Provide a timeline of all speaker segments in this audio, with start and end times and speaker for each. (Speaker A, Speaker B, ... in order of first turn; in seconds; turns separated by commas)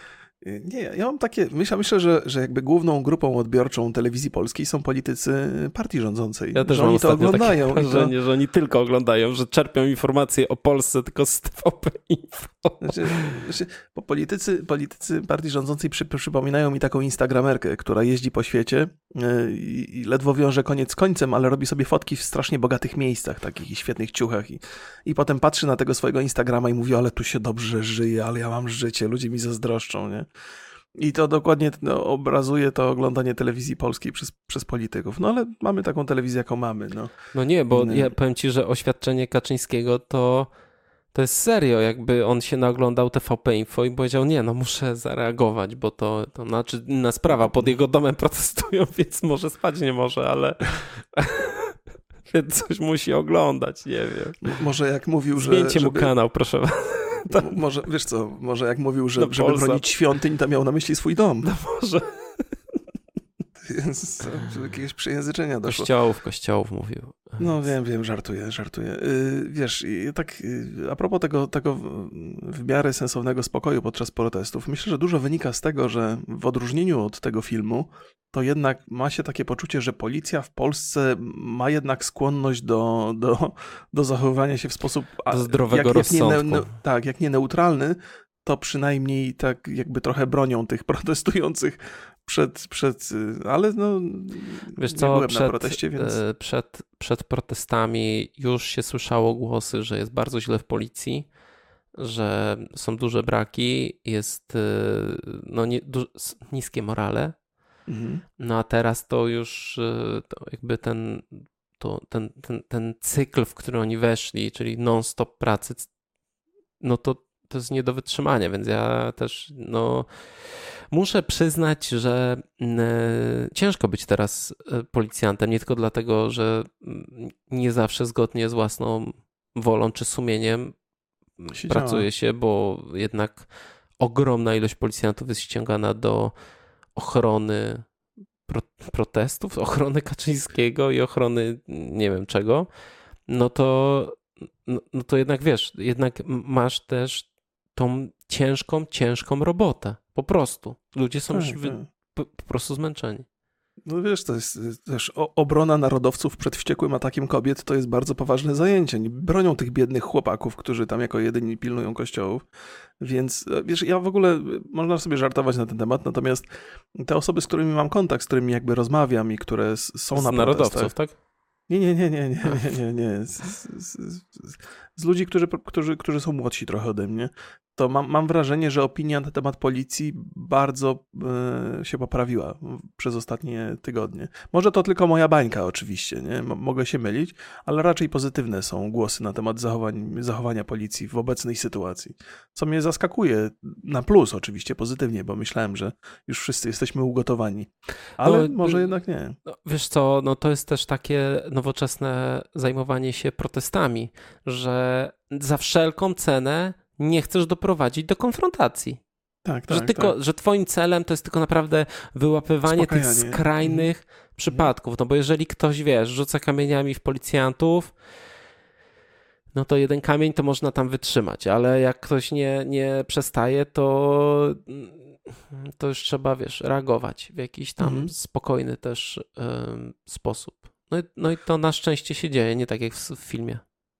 Speaker A: 0.4-8.1, Speaker B: 6.5-13.4, Speaker A: 12.8-30.2, Speaker A: 31.0-37.1, Speaker B: 37.3-40.5, Speaker A: 37.7-38.1, Speaker B: 41.1-54.4, Speaker A: 54.4-56.1, Speaker B: 55.3-57.6, Speaker A: 57.3-61.5, Speaker B: 59.2-59.9, Speaker B: 61.4-62.5, Speaker A: 63.6-65.9, Speaker B: 65.7-67.6, Speaker A: 67.4-96.2, Speaker B: 85.3-86.7, Speaker B: 94.8-101.3, Speaker B: 102.0-107.3, Speaker A: 107.9-108.2, Speaker B: 108.4-115.9, Speaker B: 116.8-130.7, Speaker B: 131.4-133.5, Speaker A: 131.5-132.1, Speaker B: 134.0-136.3, Speaker B: 136.9-137.9, Speaker B: 138.5-142.7, Speaker B: 143.3-153.2, Speaker A: 151.3-151.9, Speaker A: 153.9-162.4, Speaker A: 163.0-170.9, Speaker B: 170.1-171.1, Speaker A: 171.7-199.4, Speaker B: 198.2-198.9, Speaker B: 199.5-209.0, Speaker A: 209.4-210.1, Speaker B: 209.7-217.9, Speaker A: 212.7-213.9, Speaker B: 219.5-233.6, Speaker A: 227.8-228.1